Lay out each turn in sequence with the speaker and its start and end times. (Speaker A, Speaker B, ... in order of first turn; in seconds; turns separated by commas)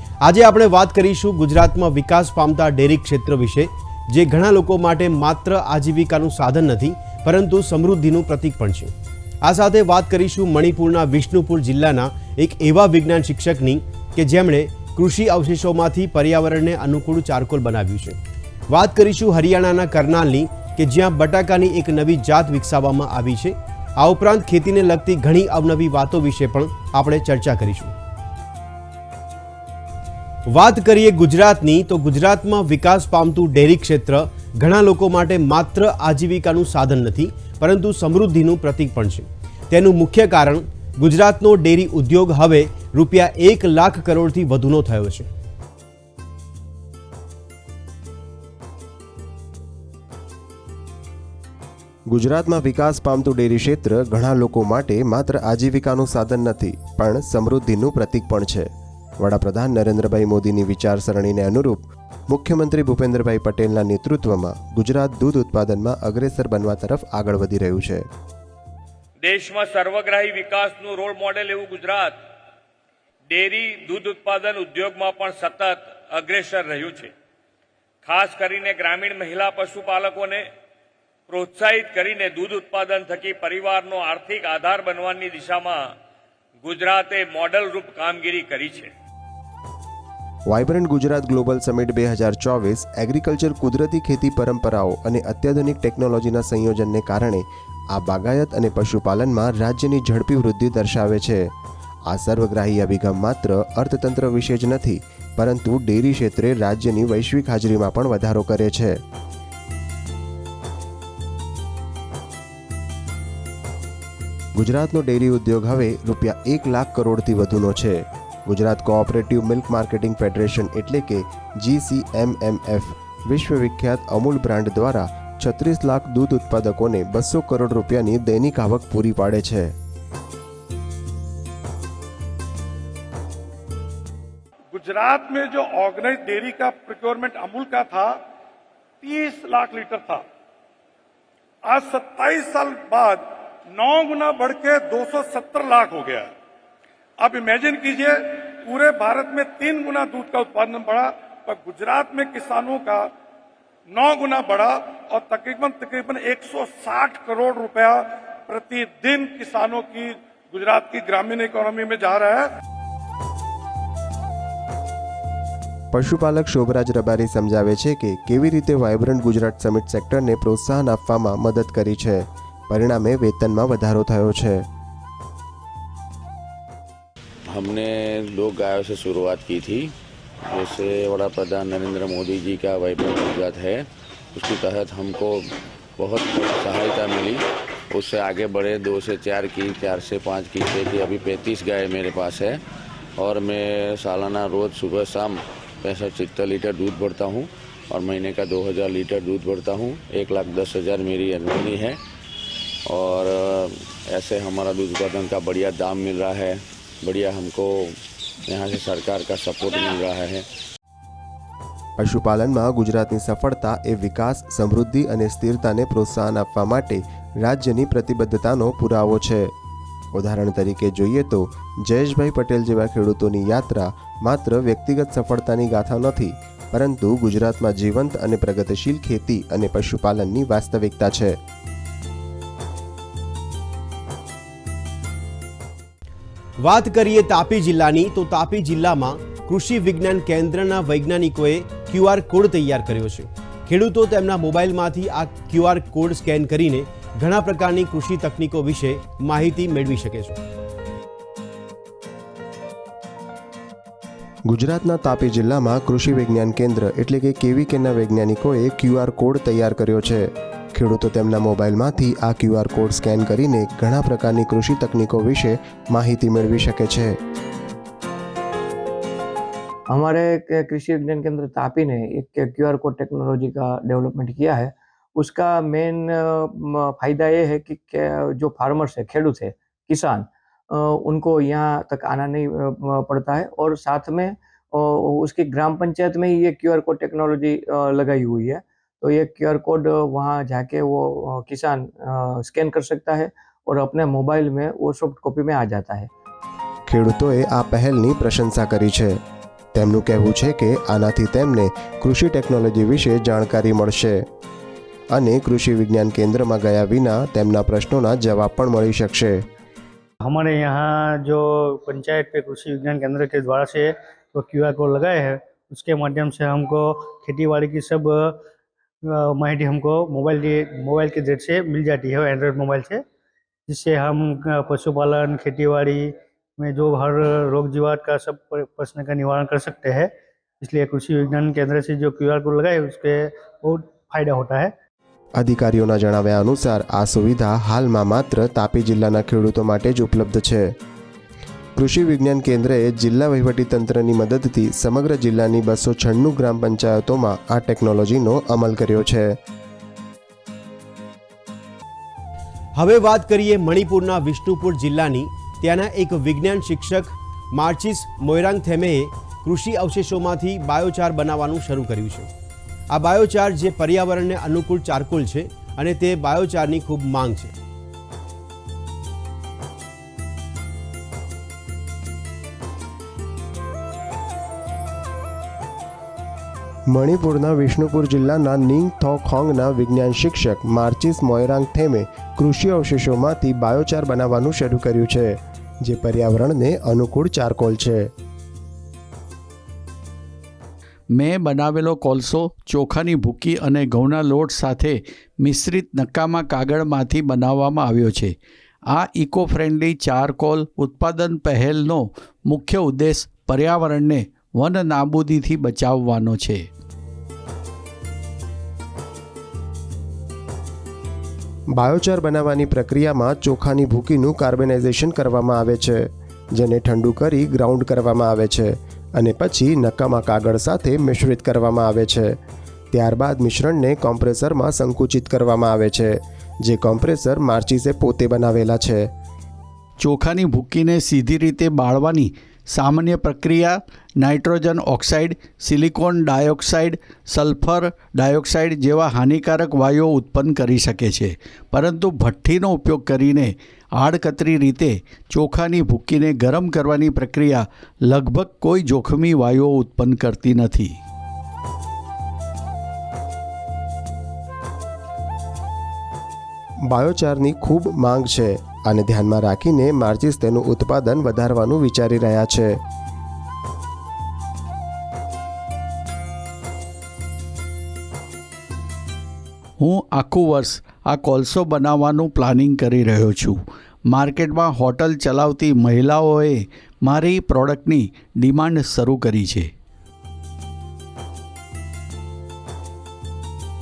Speaker A: 0.2-8.9, Speaker A: 9.4-18.2, Speaker A: 18.7-27.9, Speaker A: 30.5-45.3, Speaker B: 52.1-68.1, Speaker C: 69.2-72.2, Speaker C: 73.3-77.1, Speaker C: 78.0-80.5, Speaker C: 81.3-85.9, Speaker C: 86.6-88.9, Speaker B: 90.5-101.5, Speaker B: 102.1-109.0, Speaker B: 114.5-129.8, Speaker D: 134.7-138.2, Speaker D: 139.0-140.2, Speaker D: 141.6-146.3, Speaker D: 147.2-153.1, Speaker D: 153.9-162.5, Speaker B: 165.9-174.7, Speaker E: 177.5-179.9, Speaker E: 180.4-192.6, Speaker E: 193.2-202.0, Speaker E: 202.9-210.4, Speaker B: 212.0-219.5, Speaker B: 220.1-231.4, Speaker A: 236.6-250.4, Speaker B: 254.5-267.2, Speaker F: 269.9-296.1, Speaker B: 296.9-299.2, Speaker B: 299.7-304.2, Speaker B: 305.1-309.4, Speaker G: 310.2-318.4, Speaker G: 319.1-323.0, Speaker G: 323.7-334.7, Speaker B: 335.4-340.7, Speaker B: 341.8-349.4, Speaker A: 352.8-362.3, Speaker A: 362.9-367.5, Speaker B: 376.9-388.1, Speaker H: 391.1-398.3, Speaker H: 398.9-406.7, Speaker B: 411.7-422.4, Speaker B: 422.9-429.1, Speaker H: 430.0-450.9, Speaker B: 456.9-462.8, Speaker H: 469.8-479.7